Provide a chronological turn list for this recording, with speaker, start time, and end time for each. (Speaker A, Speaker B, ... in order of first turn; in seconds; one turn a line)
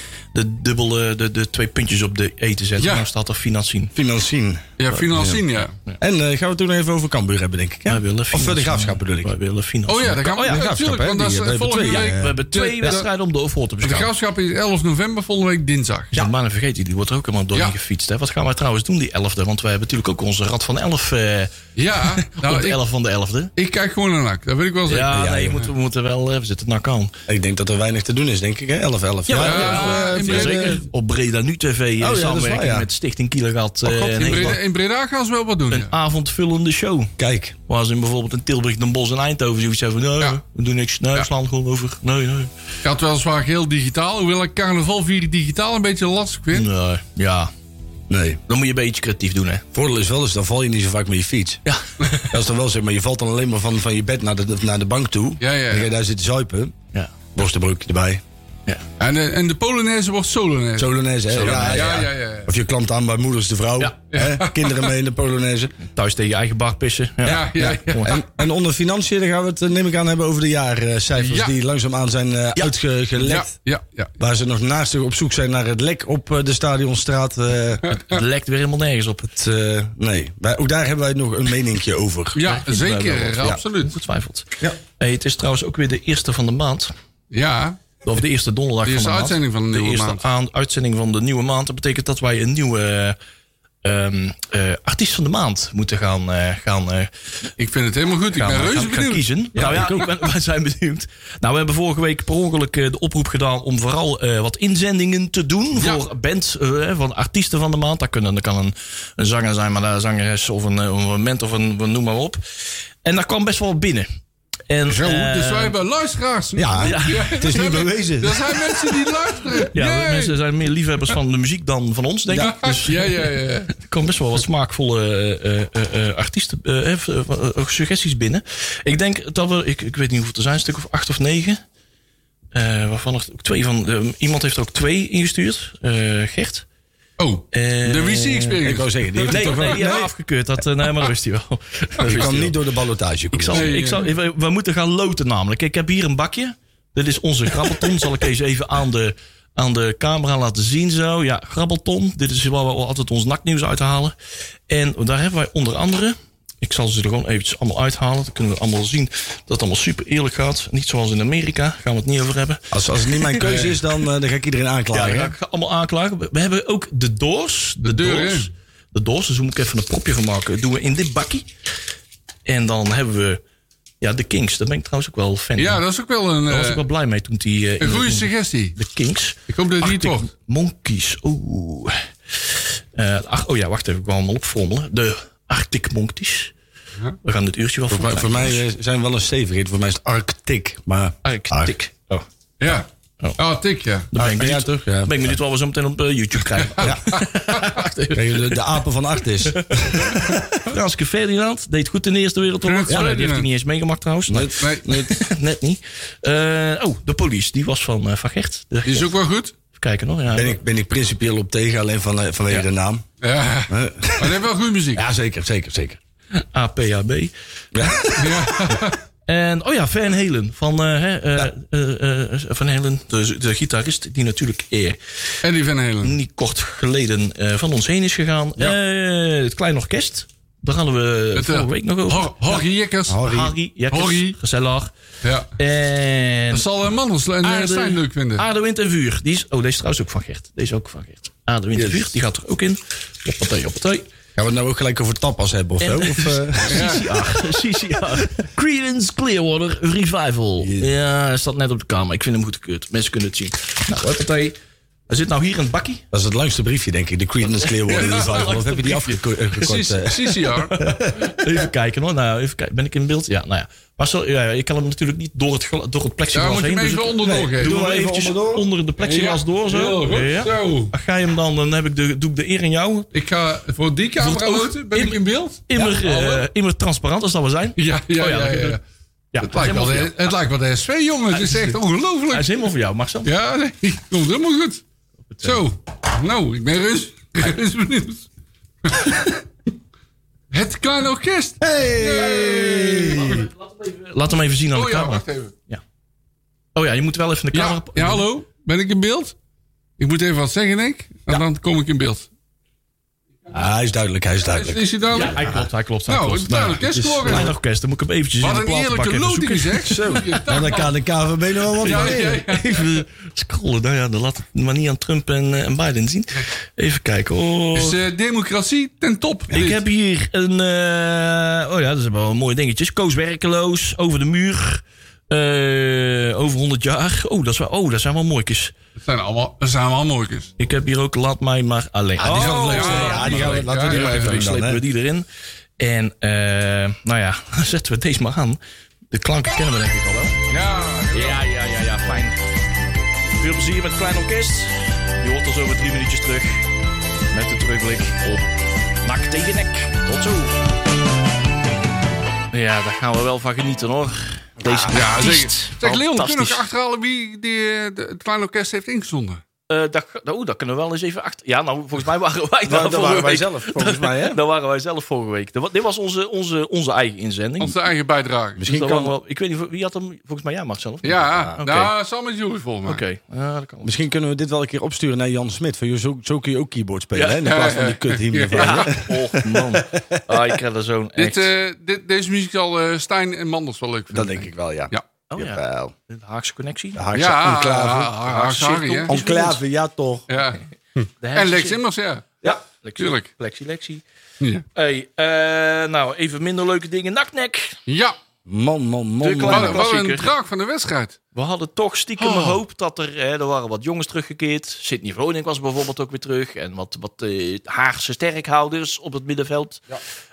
Speaker A: 0.3-3.9
Speaker B: 2.8-3.1
Speaker C: 3.9-5.4
Speaker B: 4.8-5.7
Speaker C: 6.0-9.3
Speaker A: 7.9-10.7
Speaker B: 9.9-13.1
Speaker C: 10.3-13.0
Speaker A: 11.9-14.1
Speaker B: 13.8-16.1
Speaker A: 16.1-23.5
Speaker B: 21.8-22.8
Speaker B: 23.6-25.1
Speaker A: 24.9-27.1
Speaker C: 25.1-25.7
Speaker C: 27.3-30.8
Speaker A: 29.3-34.6
Speaker B: 29.3-30.8
Speaker C: 32.0-32.9
Speaker B: 33.8-35.9
Speaker A: 35.7-37.1
Speaker C: 37.2-37.5
Speaker A: 37.7-42.5
Speaker B: 42.8-46.7
Speaker A: 46.5-47.5
Speaker C: 48.1-48.4
Speaker A: 48.5-49.6
Speaker C: 49.7-51.6
Speaker A: 51.6-52.3
Speaker C: 52.2-56.7
Speaker B: 55.4-55.9
Speaker C: 57.3-58.2
Speaker B: 59.0-62.5
Speaker C: 60.8-65.8
Speaker A: 61.3-61.9
Speaker B: 64.1-64.9
Speaker A: 65.8-68.2
Speaker C: 67.2-73.5
Speaker B: 67.2-68.3
Speaker B: 71.2-71.5
Speaker B: 73.2-74.1
Speaker C: 74.2-77.8
Speaker B: 77.9-78.2
Speaker A: 77.9-79.3
Speaker C: 79.3-82.4
Speaker B: 82.3-84.0
Speaker A: 82.4-86.9
Speaker B: 87.3-87.8
Speaker A: 88.0-93.2
Speaker B: 88.8-90.2
Speaker A: 93.8-97.5
Speaker B: 97.6-99.7
Speaker A: 98.3-114.1
Speaker C: 99.5-100.1
Speaker B: 105.8-106.0
Speaker A: 114.7-115.8
Speaker B: 114.9-120.3
Speaker C: 116.5-118.6
Speaker A: 116.8-117.5
Speaker A: 119.7-131.6
Speaker C: 122.3-122.5
Speaker B: 122.4-123.7
Speaker A: 132.5-136.7
Speaker B: 137.2-140.0
Speaker A: 137.5-138.6
Speaker C: 138.6-140.1
Speaker A: 139.3-142.6
Speaker C: 142.0-143.7
Speaker A: 143.3-154.1
Speaker B: 143.5-144.0
Speaker A: 154.7-163.5
Speaker C: 162.7-165.3
Speaker B: 163.4-163.8
Speaker A: 164.9-171.5
Speaker B: 167.8-168.5
Speaker A: 172.4-173.4
Speaker A: 174.0-175.8
Speaker B: 175.6-176.8
Speaker A: 176.5-186.5
Speaker B: 177.8-178.8
Speaker B: 179.5-180.3
Speaker A: 187.2-188.6
Speaker C: 187.9-191.7
Speaker A: 191.2-192.2
Speaker B: 192.6-194.1
Speaker A: 194.1-198.8
Speaker C: 194.1-195.3
Speaker B: 196.6-197.7
Speaker C: 198.1-200.6
Speaker A: 199.4-209.2
Speaker B: 202.6-203.5
Speaker C: 202.9-203.1
Speaker C: 204.3-205.1
Speaker B: 204.6-204.9
Speaker B: 208.8-209.5
Speaker A: 209.7-210.6
Speaker C: 210.3-213.0
Speaker B: 213.2-215.0
Speaker C: 213.7-214.4
Speaker C: 214.9-216.0
Speaker A: 216.3-218.0
Speaker C: 217.7-218.8
Speaker B: 218.2-219.0
Speaker A: 219.3-225.4
Speaker B: 225.4-226.2
Speaker A: 226.0-232.6
Speaker B: 231.3-233.3
Speaker C: 233.1-233.5
Speaker A: 233.2-234.9
Speaker B: 233.9-234.4
Speaker B: 235.2-235.5
Speaker A: 235.6-236.7
Speaker B: 236.5-238.4
Speaker A: 237.4-244.1
Speaker C: 241.8-242.1
Speaker C: 244.3-247.0
Speaker A: 245.8-254.6
Speaker B: 246.6-247.1
Speaker C: 248.0-248.2
Speaker C: 250.6-250.9
Speaker A: 255.1-256.0
Speaker C: 256.1-261.6
Speaker A: 257.4-259.2
Speaker B: 257.9-260.8
Speaker A: 260.7-273.1
Speaker B: 266.3-267.8
Speaker C: 267.2-268.6
Speaker B: 269.0-270.9
Speaker B: 273.1-276.5
Speaker A: 274.2-278.8
Speaker B: 277.8-278.8
Speaker A: 279.3-280.3
Speaker B: 279.4-282.6
Speaker A: 281.3-281.8
Speaker A: 282.3-283.3
Speaker B: 283.2-284.8
Speaker A: 285.3-285.6
Speaker B: 285.4-288.3
Speaker B: 288.8-289.3
Speaker B: 290.5-293.5
Speaker C: 291.6-293.4
Speaker A: 293.1-295.8
Speaker B: 294.7-295.5
Speaker A: 296.7-298.3
Speaker B: 297.5-299.3
Speaker B: 300.0-302.3
Speaker C: 303.5-304.8
Speaker B: 304.5-305.5
Speaker A: 305.1-310.4
Speaker B: 306.1-307.5
Speaker C: 306.9-307.5
Speaker B: 308.4-310.9
Speaker C: 309.9-312.8
Speaker B: 311.8-312.9
Speaker A: 311.8-318.0
Speaker B: 317.7-319.8
Speaker A: 319.5-328.7
Speaker B: 329.0-330.5
Speaker A: 330.6-335.2
Speaker C: 332.2-334.8
Speaker B: 332.2-334.5
Speaker A: 335.8-338.6
Speaker A: 339.1-340.4
Speaker B: 340.5-341.4
Speaker A: 341.1-342.4
Speaker A: 343.4-346.7
Speaker A: 347.3-348.5
Speaker A: 349.0-350.6
Speaker A: 352.5-356.6
Speaker C: 354.6-355.0
Speaker B: 354.9-359.4
Speaker A: 359.7-367.8
Speaker C: 362.6-364.4
Speaker B: 367.6-368.6
Speaker C: 368.6-369.1
Speaker A: 368.6-371.9
Speaker B: 371.0-373.0
Speaker A: 372.9-373.9
Speaker C: 373.8-380.5
Speaker A: 377.1-377.5
Speaker B: 377.4-379.0
Speaker A: 378.5-381.5
Speaker B: 381.1-385.0
Speaker C: 384.1-385.9
Speaker A: 385.3-387.0
Speaker C: 386.9-388.2
Speaker B: 387.1-389.1
Speaker A: 388.2-389.6
Speaker C: 389.1-390.3
Speaker B: 390.3-392.2
Speaker A: 391.2-391.8
Speaker A: 392.4-394.0
Speaker B: 393.0-393.3
Speaker A: 394.7-397.8
Speaker B: 397.9-398.2
Speaker C: 398.4-399.9
Speaker A: 399.2-400.3
Speaker B: 399.5-401.2
Speaker A: 401.3-409.9
Speaker B: 402.2-402.6